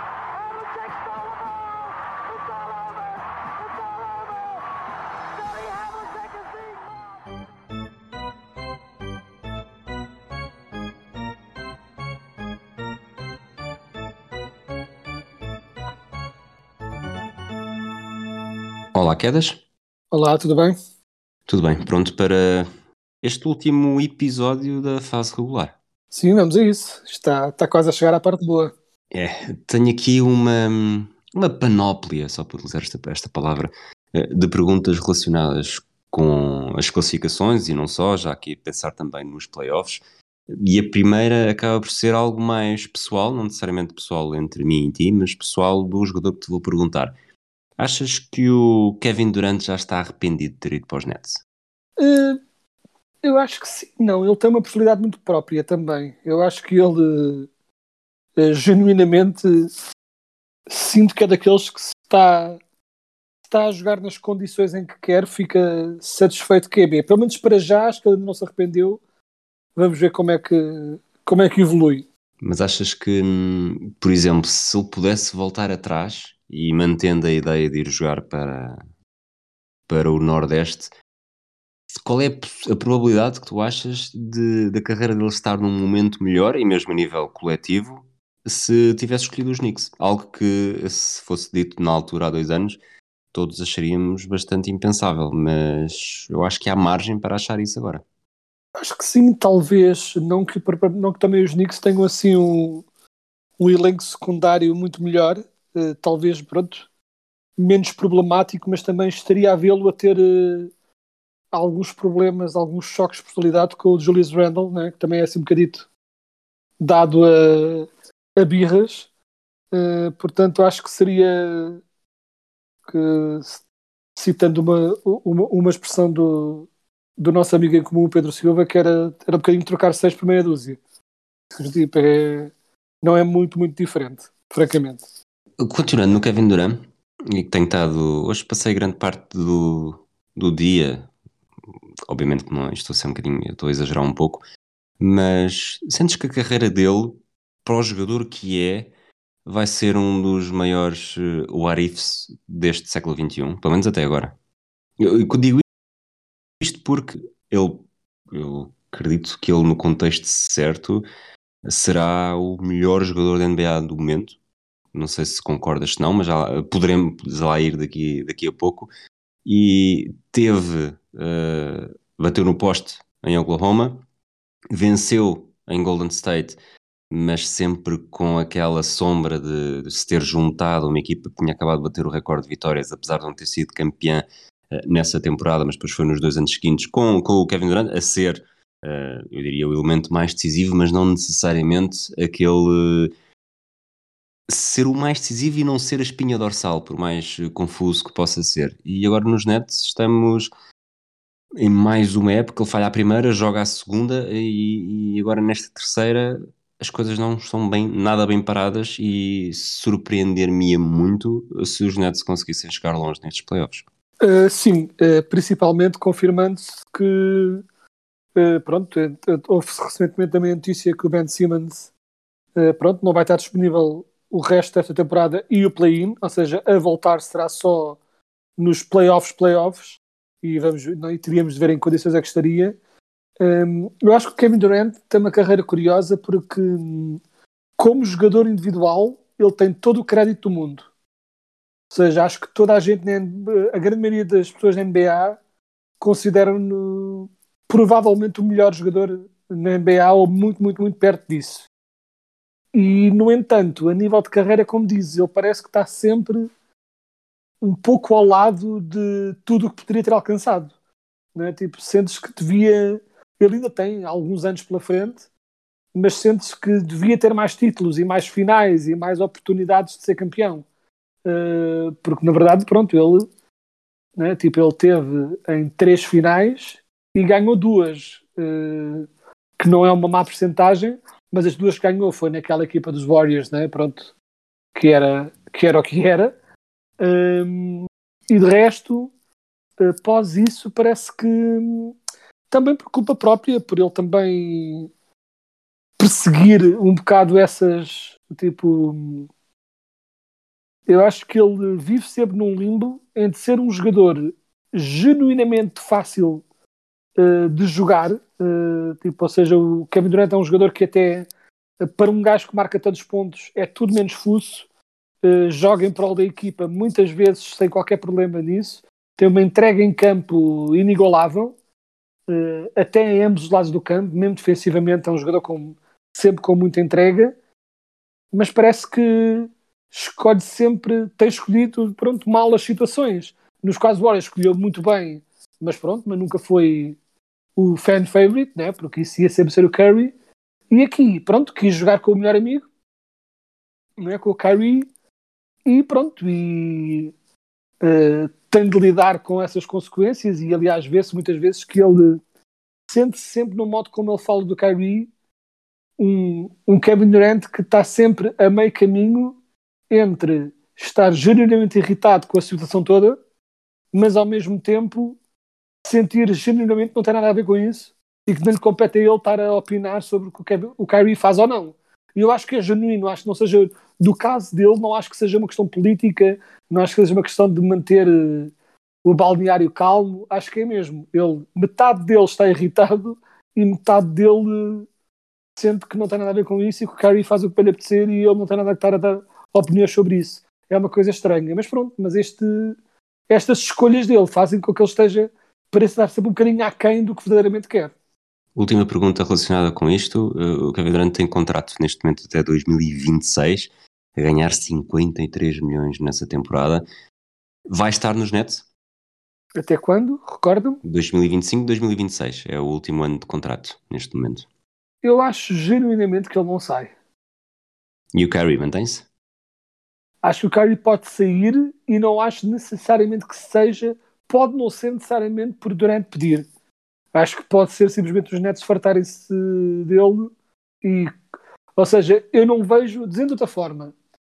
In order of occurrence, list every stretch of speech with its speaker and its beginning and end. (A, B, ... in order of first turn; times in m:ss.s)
0:00.3-0:07.4 A
0:18.9-0:19.6 B
0:20.1-0:20.8 C
0:21.5-0:22.7 B
0:23.2-0:25.8 B
0:26.1-0:28.7 C
0:29.1-0:47.2 B
0:47.8-0:51.4 B
0:52.0-0:52.4 C
0:53.2-0:57.5 C
0:58.4-0:59.7 C
1:00.7-1:02.6 C
1:03.5-1:09.0 C
1:09.8-1:12.0 C
1:12.4-1:18.8 B
1:19.9-1:20.9 B
1:21.9-1:32.8 B
1:33.3-1:38.0 B
1:38.8-1:42.8 C
1:43.6-1:46.9 C
1:47.6-1:50.7 C
1:51.5-1:55.9 C
1:56.8-1:59.1 C
1:59.7-2:01.8 C
2:02.9-2:03.6 C
2:04.2-2:06.7 C
2:07.2-2:10.8 C
2:11.6-2:15.0 C
2:15.6-2:21.1 B
2:22.1-2:24.4 B
2:25.0-2:28.9 B
2:29.4-2:34.4 B
2:35.0-2:35.6 B
2:36.6-2:41.0 B
2:41.7-2:44.4 B
2:44.9-2:48.9 B
2:49.4-2:54.0 B
2:54.7-2:56.6 B
2:57.1-3:13.1 B
3:14.5-3:20.5 B
3:21.6-3:33.8 B
3:34.2-3:37.6 C
3:38.4-3:41.9 C
3:42.6-3:48.0 C
3:48.6-3:52.8 C
3:53.4-3:57.2 C
3:57.8-4:00.9 C
4:01.9-4:05.4 C
4:06.0-4:11.7 C
4:12.7-4:16.5 C
4:17.6-4:20.7 C
4:21.3-4:25.2 C
4:25.9-4:30.6 C
4:31.2-4:33.2 C
4:34.2-4:39.1 C
4:39.6-4:44.1 C
4:44.7-4:46.3 C
4:47.0-4:49.1 C
4:49.8-4:51.9 C
4:52.5-4:54.9 C
4:56.0-4:59.3 C
5:00.9-5:06.4 C
5:07.2-5:11.3 C
5:11.8-5:14.6 C
5:15.2-5:21.5 C
5:22.3-5:27.3 C
5:28.3-5:37.0 C
5:37.6-5:40.1 C
5:40.7-5:42.6 C
5:44.0-5:44.9 C
5:45.6-5:47.1 C
5:47.8-5:52.2 C
5:52.9-5:55.1 C
5:56.0-5:59.4 C
5:59.9-6:03.2 C
6:03.9-6:05.2 C
6:05.8-6:18.5 C
6:19.0-6:24.9 C
6:25.6-6:32.8 C
6:33.3-6:37.9 C
6:38.5-6:46.8 B
6:47.7-6:48.6 B
6:49.6-6:50.8 C
6:50.8-6:54.4 B
6:55.0-6:56.9 C
6:58.1-6:59.0 B
7:00.2-7:06.4 C
7:07.1-7:10.3 C
7:10.8-7:11.1 C
7:11.8-7:13.9 C